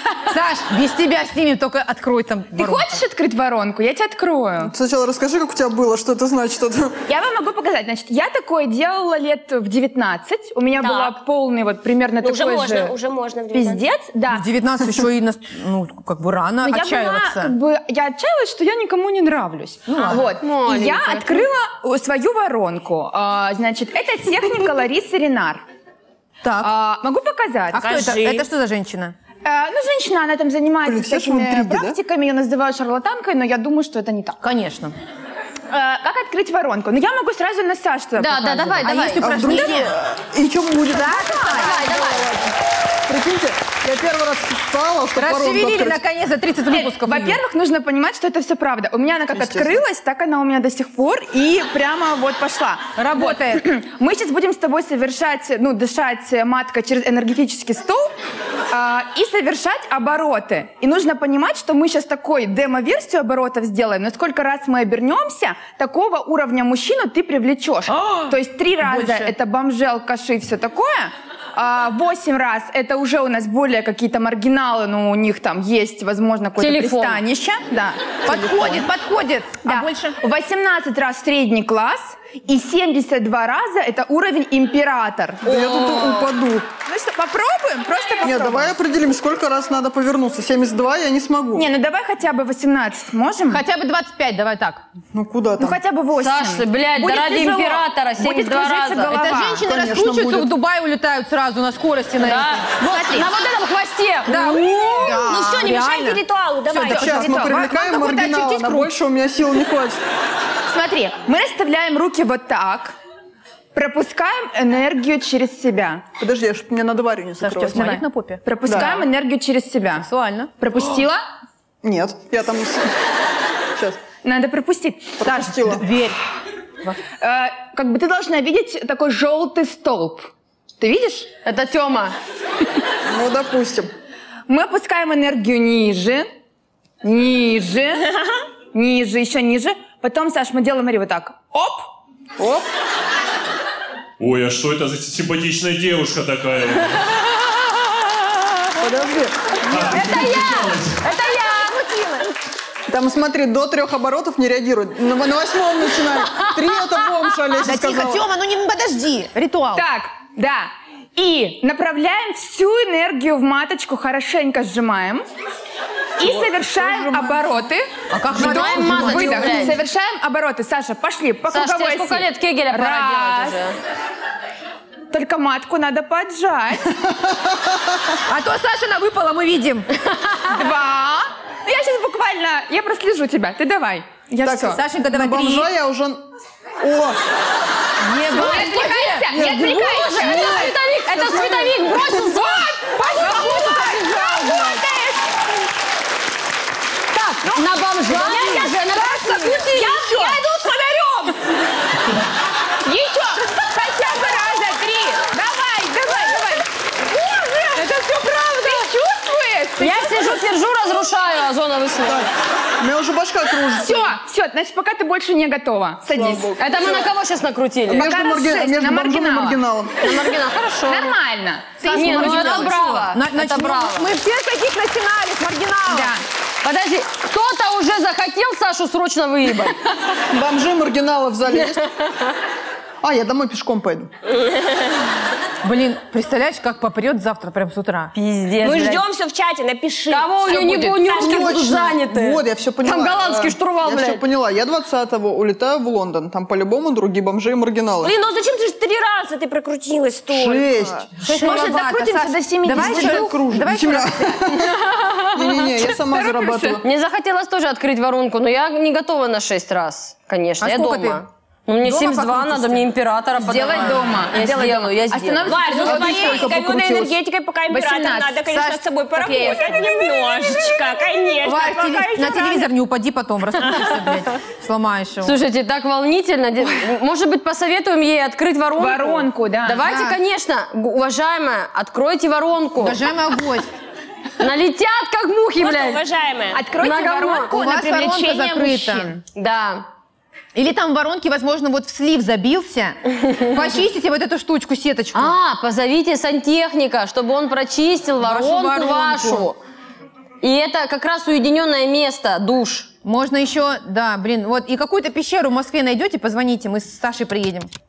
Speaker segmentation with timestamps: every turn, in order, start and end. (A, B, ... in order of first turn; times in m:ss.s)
0:00.3-0:03.0 A
0:02.5-0:04.7 B
0:04.6-0:07.0 C
0:07.1-0:13.0 B
0:10.8-0:11.2 D
0:12.2-0:13.9 D
0:13.5-0:14.4 B
0:14.3-0:17.6 A
0:16.6-0:25.6 B
0:19.9-0:20.3 A
0:20.1-0:21.5 E
0:26.4-0:26.7 A
0:26.6-0:27.9 B
0:27.7-0:29.2 A
0:27.8-0:28.5 D
0:29.4-0:34.4 B
0:30.8-0:32.0 C
0:34.4-0:35.0 A
0:35.7-0:39.0 B
0:38.2-0:39.2 E
0:38.8-0:40.0 A
0:39.2-0:42.5 C
0:40.8-0:41.8 A
0:41.5-0:42.3 E
0:43.1-0:46.0 C
0:45.2-0:47.4 A
0:46.7-0:58.1 B
0:49.3-0:49.8 C
0:53.0-0:53.6 A
0:58.7-1:18.2 B
1:07.9-1:09.3 A
1:16.6-1:17.2 E
1:18.2-1:18.9 C
1:18.2-1:20.2 A
1:19.6-1:25.8 B
1:25.4-1:26.7 C
1:25.8-1:26.3 D
1:26.8-1:28.8 B
1:28.2-1:31.7 C
1:31.6-1:33.6 B
1:33.5-1:34.8 A
1:35.1-1:35.8 C
1:35.6-1:39.7 B
1:36.2-1:39.2 E
1:39.1-1:43.3 A
1:39.5-1:40.5 C
1:42.2-1:45.4 E
1:42.8-1:43.3 B
1:44.3-1:48.9 A
1:45.2-1:47.3 D
1:46.9-1:50.0 C
1:50.7-1:53.0 B
1:53.7-1:56.0 B
1:56.2-1:58.0 C
1:57.4-1:59.1 A
1:57.8-2:00.1 B
1:58.6-1:59.0 C
1:59.9-2:00.5 A
2:00.6-2:01.2 B
2:01.8-2:02.9 C
2:03.8-2:04.0 C
2:04.2-2:05.2 B
2:05.2-2:05.8 C
2:05.2-2:06.2 A
2:07.2-2:11.3 B
2:11.4-2:12.2 E
2:13.1-2:13.9 C
2:14.5-2:16.3 B
2:17.0-2:18.2 B
2:18.7-2:21.9 B
2:22.4-2:22.6 C
2:24.2-2:27.3 F
2:28.8-2:29.8 C
2:29.7-2:31.0 F
2:29.8-2:31.6 B
2:29.9-2:30.4 A
2:31.0-2:32.2 A
2:31.1-2:31.7 E
2:32.9-2:38.2 C
2:37.6-2:39.8 A
2:39.8-2:45.2 B
2:46.2-2:53.6 B
2:46.2-2:47.5 C
2:48.1-2:49.8 A
2:48.3-2:49.8 E
2:51.5-2:53.8 E
2:55.1-2:56.8 B
2:57.0-2:58.2 C
2:58.3-2:59.9 A
3:00.5-3:04.8 B
3:04.4-3:06.3 C
3:04.7-3:05.7 A
3:06.8-3:07.2 C
3:08.0-3:09.5 A
3:08.1-3:10.8 B
3:09.3-3:11.6 C
3:09.5-3:12.8 E
3:11.4-3:15.4 B
3:12.9-3:14.8 A
3:17.1-3:20.4 B
3:17.5-3:19.2 E
3:18.1-3:18.9 D
3:18.2-3:19.6 A
3:19.5-3:21.4 D
3:22.8-3:30.4 B
3:29.8-3:32.3 E
3:32.8-3:34.2 C
3:33.8-3:36.5 B
3:36.1-3:37.1 C
3:36.6-3:38.1 E
3:37.9-3:40.1 C
3:37.9-3:39.6 B
3:40.0-3:41.2 E
3:40.9-3:42.8 B
3:41.8-3:46.1 A
3:41.9-3:44.1 E
3:45.9-3:46.2 B
3:46.6-3:49.8 E
3:50.3-3:51.9 C
3:53.0-3:54.1 C
3:54.3-3:55.0 D
3:55.6-3:58.1 A
3:58.1-3:59.0 E
3:58.6-4:01.6 D
4:00.1-4:04.2 E
4:00.4-4:01.1 B
4:01.2-4:08.2 C
4:08.0-4:11.0 D
4:10.3-4:11.2 C
4:11.2-4:13.4 B
4:11.2-4:14.5 A
4:12.7-4:16.8 C
4:14.8-4:15.7 E
4:15.5-4:16.8 B
4:16.8-4:26.3 E
4:20.6-4:21.2 A
4:21.8-4:22.9 A
4:23.4-4:26.5 B
4:25.4-4:32.7 D
4:25.8-4:27.2 C
4:27.7-4:30.4 B
4:31.4-4:35.4 A
4:35.2-4:43.0 E
4:38.8-4:39.8 B
4:39.8-4:40.2 A
4:42.8-4:43.7 A
4:44.4-4:46.0 E
4:45.6-4:46.6 D
4:46.5-4:49.2 B
4:46.8-4:47.5 E
4:47.5-4:49.1 A
4:49.4-4:49.9 E
4:50.6-4:55.4 A
4:55.1-4:59.6 E
4:58.2-4:59.5 A
5:00.4-5:02.9 E
5:03.0-5:07.7 A